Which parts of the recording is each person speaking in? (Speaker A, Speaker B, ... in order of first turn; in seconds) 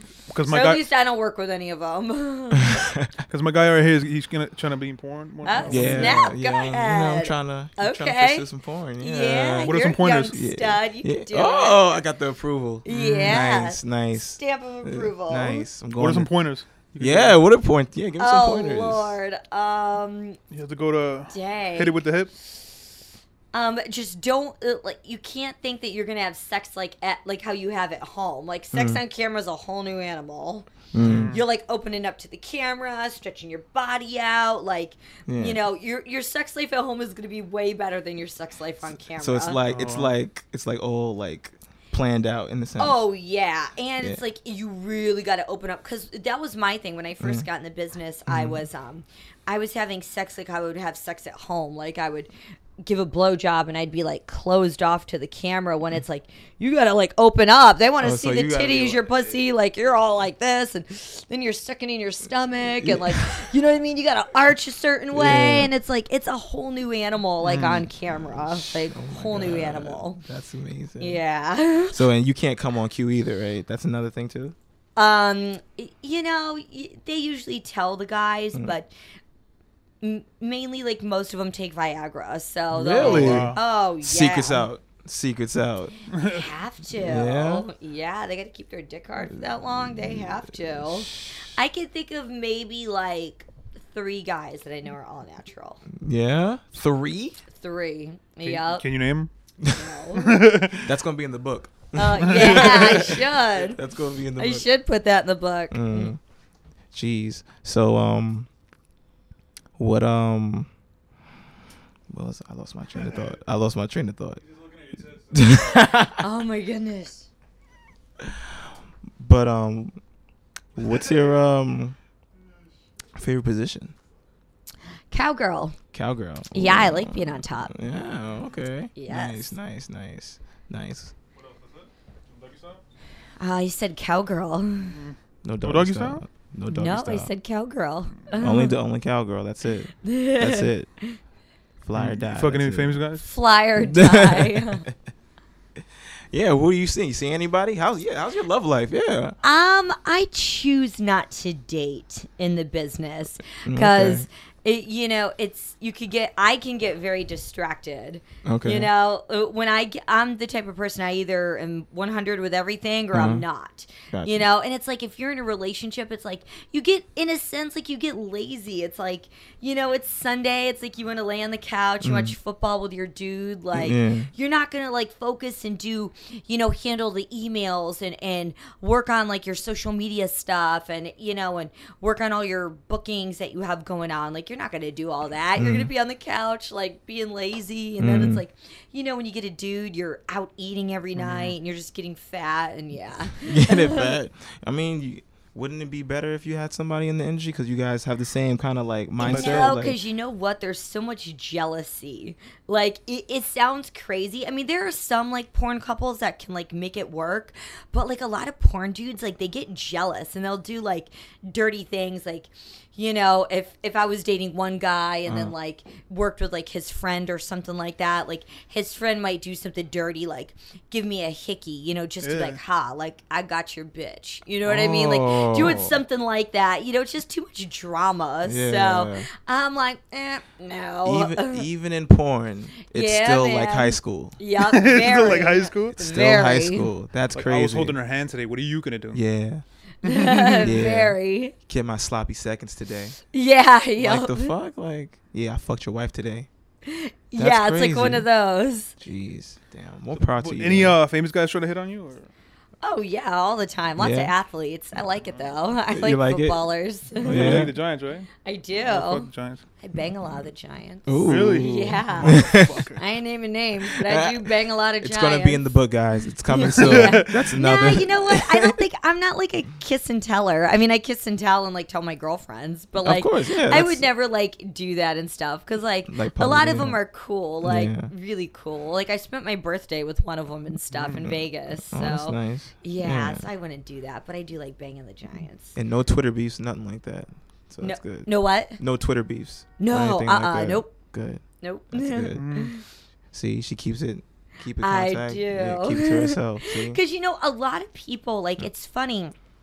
Speaker A: 0.3-0.8, 3.3-6.2, 9.6-10.3, 12.9-13.4, 15.9-17.4, 20.5-22.3, 31.0-31.4, 39.6-40.1, 67.4-67.8, 83.0-83.6, 86.1-86.4, 98.4-99.3, 100.2-100.9, 102.3-102.9, 114.6-115.2, 131.3-132.8, 134.9-136.2, 141.9-143.2, 199.2-199.7, 222.2-222.6, 234.6-236.0, 237.3-239.2, 240.1-240.6, 250.1-252.3, 257.2-259.6, 261.2-263.0, 266.8-267.4, 280.9-281.3, 292.3-292.7
Speaker B: 0.4-2.8, 5.4-11.9, 12.8-15.7, 18.2-20.4, 21.3-22.0, 23.5-30.7, 31.3-39.6, 42.8-52.3, 52.8-70.2, 71.0-72.0, 75.0-78.9, 80.0-84.6, 86.2-95.8, 97.5-98.8, 99.7-100.5, 101.9-103.8, 104.3-106.1, 116.2-117.3, 125.1-125.8, 126.5-127.7, 128.9-129.6, 133.4-134.9, 136.7-138.7, 140.0-141.2, 143.2-144.9, 149.4-194.1, 199.2-231.7, 232.9-236.9, 240.0-241.5, 243.3-244.5, 246.8-248.9, 252.8-257.7, 258.4-259.3, 259.8-265.7, 266.5-285.8, 287.8-288.8, 289.8-290.9, 291.6-292.8, 294.8-299.3
Speaker C: 2.7-3.1, 5.7-16.3, 17.0-19.2, 28.7-29.0, 30.9-31.4, 35.3-35.6, 39.1-43.0, 47.2-47.5, 48.3-48.6, 58.0-59.4, 62.8-63.2, 65.1-65.7, 68.0-71.2, 71.9-74.5, 82.7-85.9, 87.0-87.7, 90.0-90.2, 96.0-97.4, 100.8-104.7, 105.7-106.2, 106.9-108.5, 109.8-110.7, 112.1-114.4, 115.3-116.2, 119.2-120.0, 120.8-122.0, 123.1-123.9, 125.9-131.1, 135.4-137.3, 138.4-140.9, 141.8-143.0, 143.8-144.9, 146.3-149.3, 153.6-154.2, 158.4-158.9, 163.1-163.4, 164.1-164.5, 172.0-172.3, 173.7-174.3, 185.6-185.9, 188.0-188.4, 193.4-200.0, 215.2-215.5, 224.6-226.0, 228.4-229.3, 231.0-234.3, 236.0-238.0, 239.1-239.6, 240.5-243.2, 244.0-246.5, 247.3-248.3, 249.0-251.0, 254.0-254.3, 255.9-256.6, 257.2-257.7, 261.1-262.8, 263.8-268.8, 273.0-274.1, 276.1-277.0, 277.6-278.1, 281.9-283.4, 285.7-292.5, 293.3-297.0